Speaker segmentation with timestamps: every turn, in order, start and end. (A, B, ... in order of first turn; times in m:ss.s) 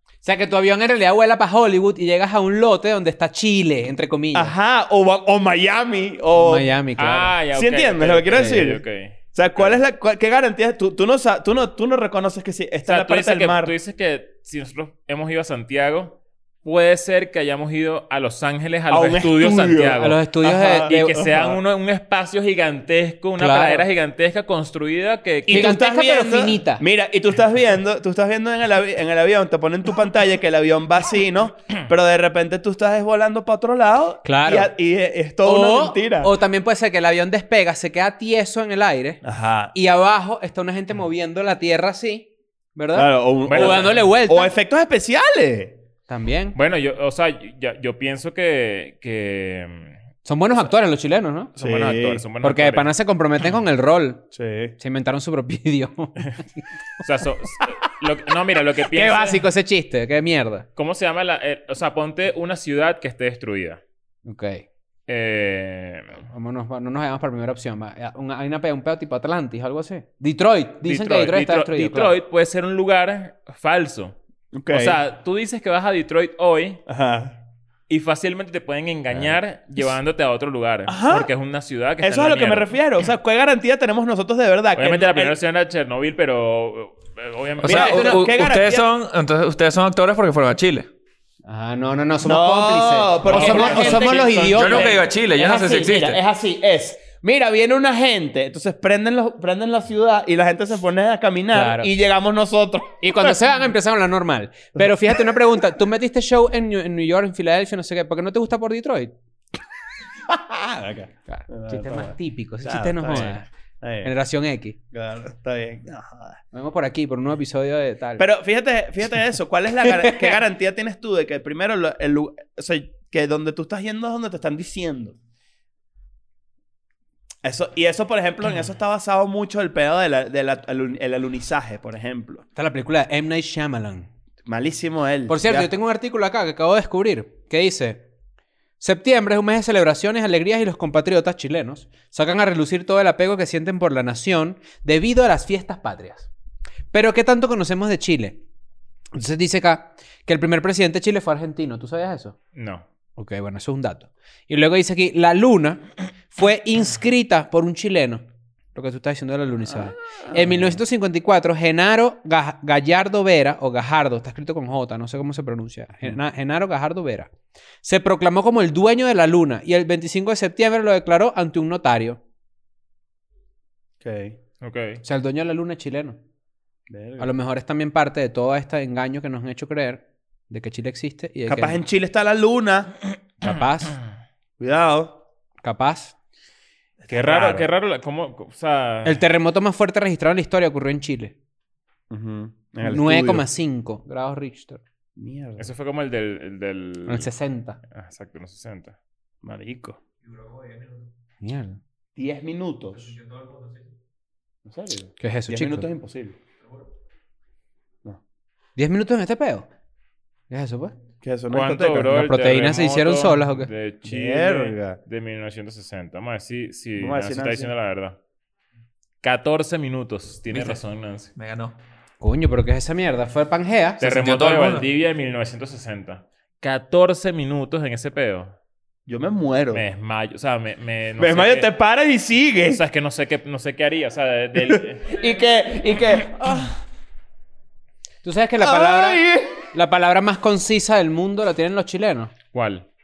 0:00.2-0:04.6 A
0:04.3-0:06.7 B
0:06.4-0:07.4 A
0:07.0-0:09.8 C
0:07.5-0:13.7 B
0:08.3-0:08.6 A
0:12.8-0:25.8 C
0:18.9-0:21.6 B
0:20.0-0:21.1 A
0:23.4-0:23.9 A
0:25.5-0:36.3 B
0:25.5-0:26.8 A
0:34.2-0:34.7 A
0:35.4-0:39.2 A
0:39.2-0:39.7 B
0:39.7-0:44.5 A
0:42.9-0:45.8 B
0:43.5-0:43.9 C
0:46.1-0:46.6 A
0:46.6-0:50.0 C
0:50.2-0:51.5 A
0:51.6-0:52.9 C
0:51.6-0:52.2 B
0:52.4-0:54.2 A
0:54.3-0:54.8 B
0:54.8-0:56.6 A
0:57.0-0:59.4 C
0:58.9-1:00.7 A
1:00.8-1:03.8 C
1:04.3-1:04.6 A
1:05.1-1:06.2 C
1:06.3-1:12.2 A
1:10.8-1:14.2 C
1:14.5-1:15.0 B
1:14.7-1:16.8 C
1:16.9-1:17.4 B
1:17.9-1:22.7 C
1:20.9-1:21.3 B
1:22.0-1:25.4 B
1:24.8-1:28.2 C
1:27.6-1:30.9 D
1:27.6-1:28.9 B
1:31.5-1:35.0 A
1:32.2-1:43.3 B
1:33.3-1:34.4 C
1:34.6-1:36.2 D
1:41.5-1:41.9 A
1:43.0-1:49.1 A
1:44.8-1:45.3 B
1:50.3-1:54.1 B
1:51.3-1:53.5 A
1:54.0-1:54.8 A
1:54.9-1:56.4 B
1:56.5-1:58.3 A
1:58.2-2:05.2 B
1:59.9-2:00.3 A
2:07.4-2:12.4 B
2:12.6-2:14.1 A
2:14.4-2:15.7 B
2:15.3-2:18.0 A
2:18.8-2:26.3 A
2:26.9-2:28.4 A
2:29.1-2:32.4 A
2:32.6-2:32.8 C
2:33.2-2:38.2 A
2:38.8-2:47.3 A
2:40.3-2:40.7 B
2:47.8-2:52.2 A
2:54.0-2:54.4 B
2:54.6-2:55.0 C
2:55.0-2:56.2 A
2:56.9-2:57.3 B
2:57.2-3:01.8 A
3:01.5-3:03.0 B
3:03.4-3:04.0 A
3:04.6-3:05.2 B
3:05.6-3:06.1 A
3:07.0-3:07.7 B
3:07.1-3:09.2 C
3:09.0-3:11.3 A
3:12.1-3:13.4 B
3:12.8-3:14.8 A
3:15.2-3:15.7 B
3:15.6-3:17.3 C
3:17.1-3:17.8 A
3:17.9-3:19.0 C
3:19.4-3:20.0 B
3:20.3-3:21.0 D
3:21.4-3:21.8 A
3:22.2-3:23.2 B
3:23.0-3:23.9 D
3:24.7-3:26.4 B
3:25.2-3:25.9 A
3:28.8-3:29.7 A
3:30.5-3:30.9 A
3:31.2-3:32.2 B
3:31.5-3:38.2 C
3:32.1-3:33.7 A
3:34.0-3:35.0 B
3:37.0-3:37.7 B
3:39.2-3:41.3 C
3:40.5-3:40.8 D
3:41.4-3:41.8 D
3:42.2-3:44.0 A
3:44.0-3:48.5 C
3:44.0-3:44.9 D
3:49.1-3:49.8 B
3:49.7-3:51.7 C
3:51.2-3:52.8 B
3:52.7-3:55.2 C
3:54.6-3:56.8 B
3:58.2-4:02.3 A
3:58.6-3:59.6 B
4:02.5-4:02.9 C